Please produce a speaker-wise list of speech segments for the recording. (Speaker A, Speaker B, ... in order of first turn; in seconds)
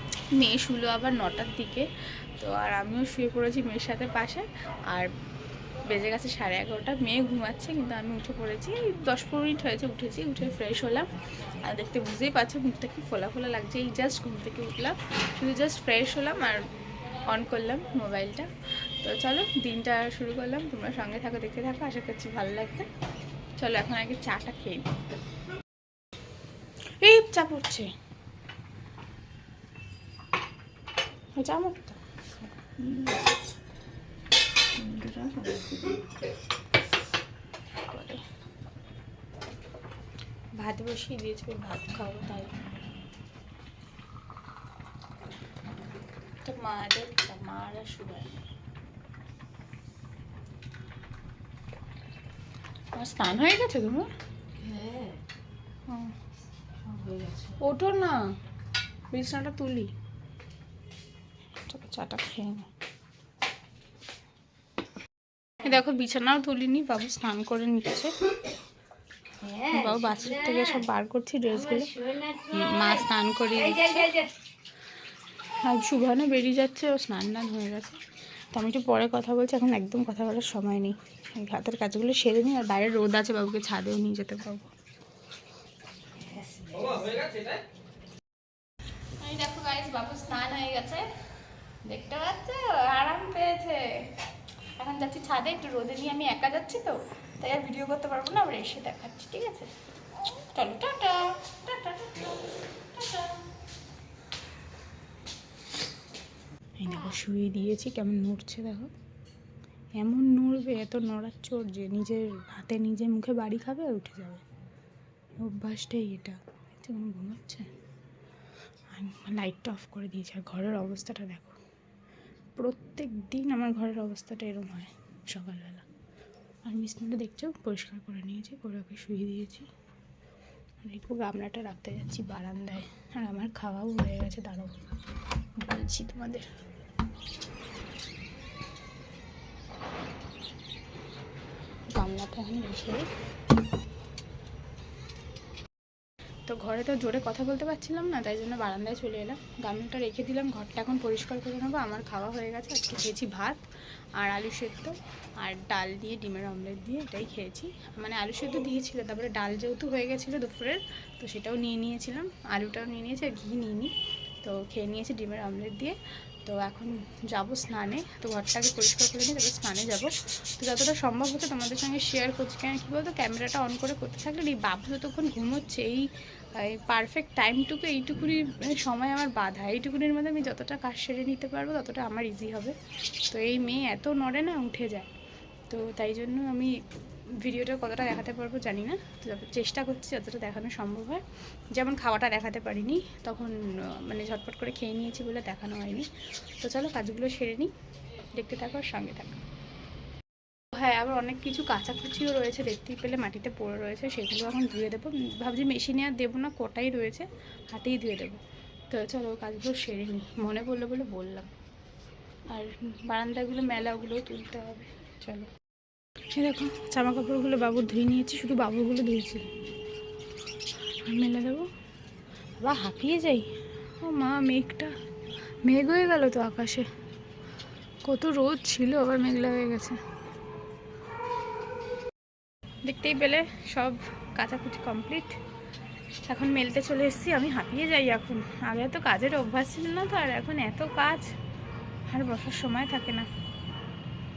Speaker A: 0.3-5.1, 5.9-16.7, 17.2-22.9, 23.6-24.9, 27.0-27.9, 31.4-32.7, 37.8-38.2, 40.6-42.5, 46.4-48.3, 53.0-54.1, 57.6-58.2, 59.1-59.9, 61.6-62.7, 65.6-68.1, 69.7-71.9, 72.5-74.2, 75.5-78.0, 78.5-84.7, 89.2-91.1, 91.9-94.1, 94.8-99.7, 100.5-103.5, 106.8-108.9, 110.0-114.4, 115.4-117.7, 118.9-121.6, 122.6-125.9, 126.7-129.7, 130.8-134.8, 135.6-136.5, 141.9-143.1, 146.5-153.6, 154.2-182.8, 183.3-185.1, 185.7-186.8, 187.4-197.7, 198.3-199.4, 200.7-211.5, 212.5-215.5, 216.3-219.5, 221.0-221.7, 222.6-223.5, 224.0-224.9, 225.6-226.9, 228.1-230.0, 232.8-235.4, 236.3-241.3, 242.1-243.3
Speaker B: 32.8-33.2, 34.8-35.9, 54.6-55.2, 56.8-57.6, 69.4-70.9, 71.5-74.3, 86.2-87.3